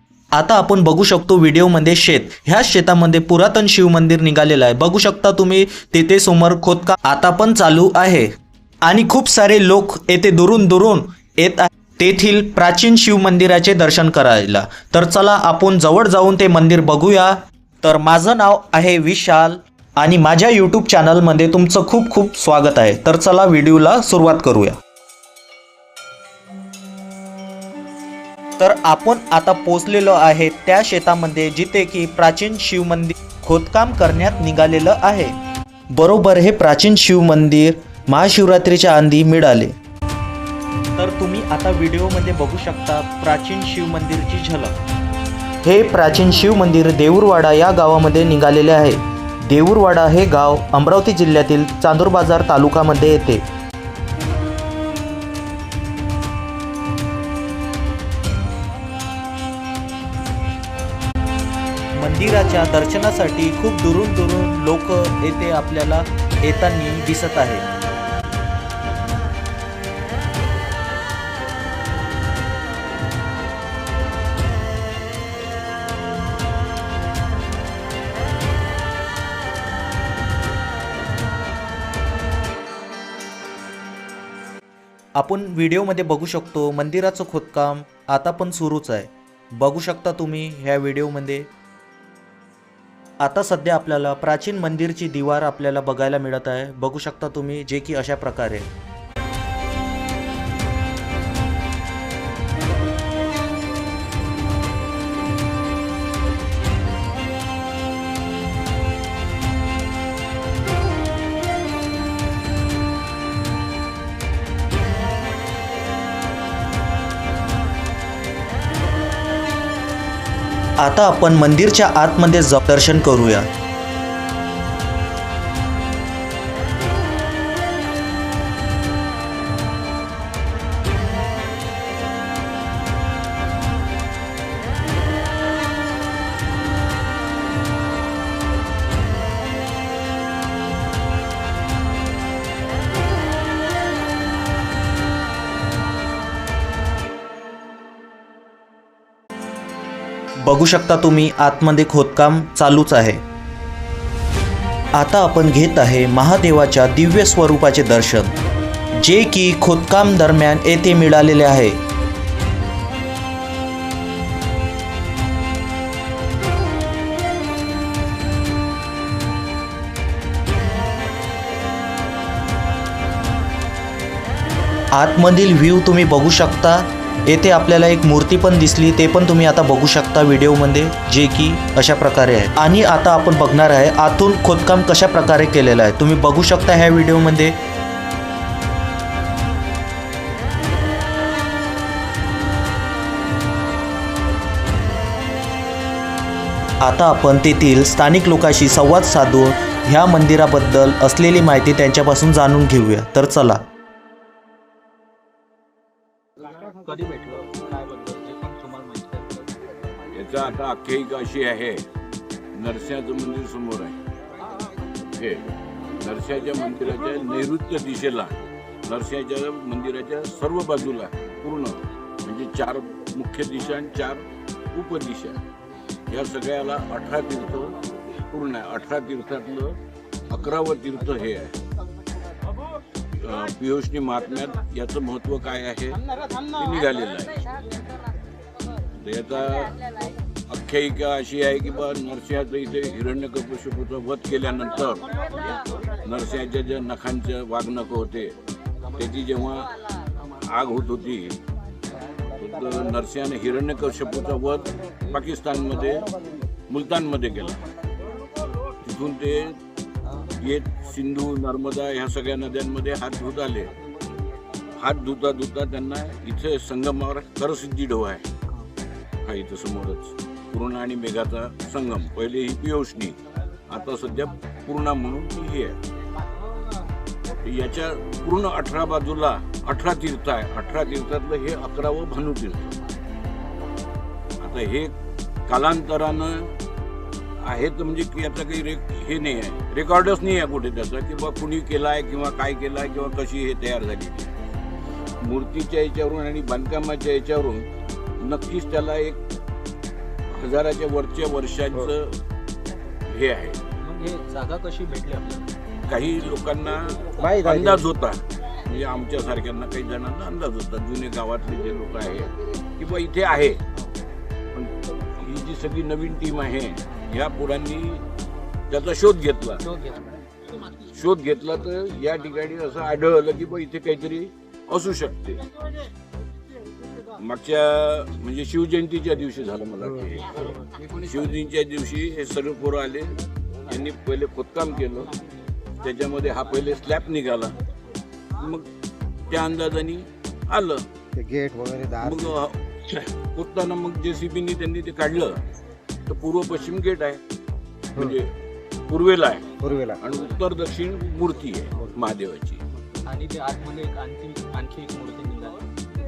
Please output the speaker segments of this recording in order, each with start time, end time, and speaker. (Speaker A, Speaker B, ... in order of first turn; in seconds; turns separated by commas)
Speaker A: 0.3-8.3, Speaker A: 8.8-24.8, Speaker A: 28.6-35.3, Speaker A: 35.9-39.7, Speaker A: 41.0-44.8, Speaker A: 45.6-53.4, Speaker A: 62.0-67.7, Speaker A: 85.2-91.5, Speaker A: 93.2-98.7, Speaker A: 120.8-123.5, Speaker A: 150.4-153.2, Speaker A: 155.0-158.3, Speaker A: 159.0-161.8, Speaker A: 174.9-187.6, Speaker A: 196.8-203.6, Speaker B: 206.6-209.5, Speaker C: 210.1-211.9, Speaker C: 212.5-214.0, Speaker C: 215.0-225.4, Speaker C: 226.1-229.8, Speaker C: 230.3-231.6, Speaker C: 233.2-237.6, Speaker C: 239.0-239.9, Speaker C: 240.5-248.4, Speaker C: 248.9-249.8, Speaker C: 250.4-251.4, Speaker C: 252.3-256.2, Speaker C: 256.7-257.6, Speaker C: 258.8-259.6, Speaker C: 260.4-263.8, Speaker C: 264.8-268.3, Speaker C: 269.2-273.2, Speaker C: 273.7-275.8, Speaker C: 277.4-282.8, Speaker C: 284.4-284.9, Speaker C: 285.5-286.6, Speaker C: 287.4-294.3, Speaker C: 295.2-297.7, Speaker C: 298.2-299.2, Speaker C: 300.3-302.2, Speaker C: 303.1-303.6, Speaker B: 303.8-305.5, Speaker C: 305.9-313.6, Speaker D: 307.2-307.8, Speaker C: 314.5-318.1, Speaker C: 318.7-319.6, Speaker B: 319.6-320.2, Speaker C: 320.9-325.4, Speaker C: 327.2-335.1, Speaker C: 335.8-337.6, Speaker C: 338.4-338.7, Speaker C: 339.3-340.9, Speaker D: 341.1-342.4, Speaker C: 342.0-345.4, Speaker C: 346.1-347.2, Speaker C: 347.9-348.3, Speaker C: 348.9-349.5, Speaker D: 349.6-350.0, Speaker C: 350.0-352.6, Speaker B: 353.1-355.8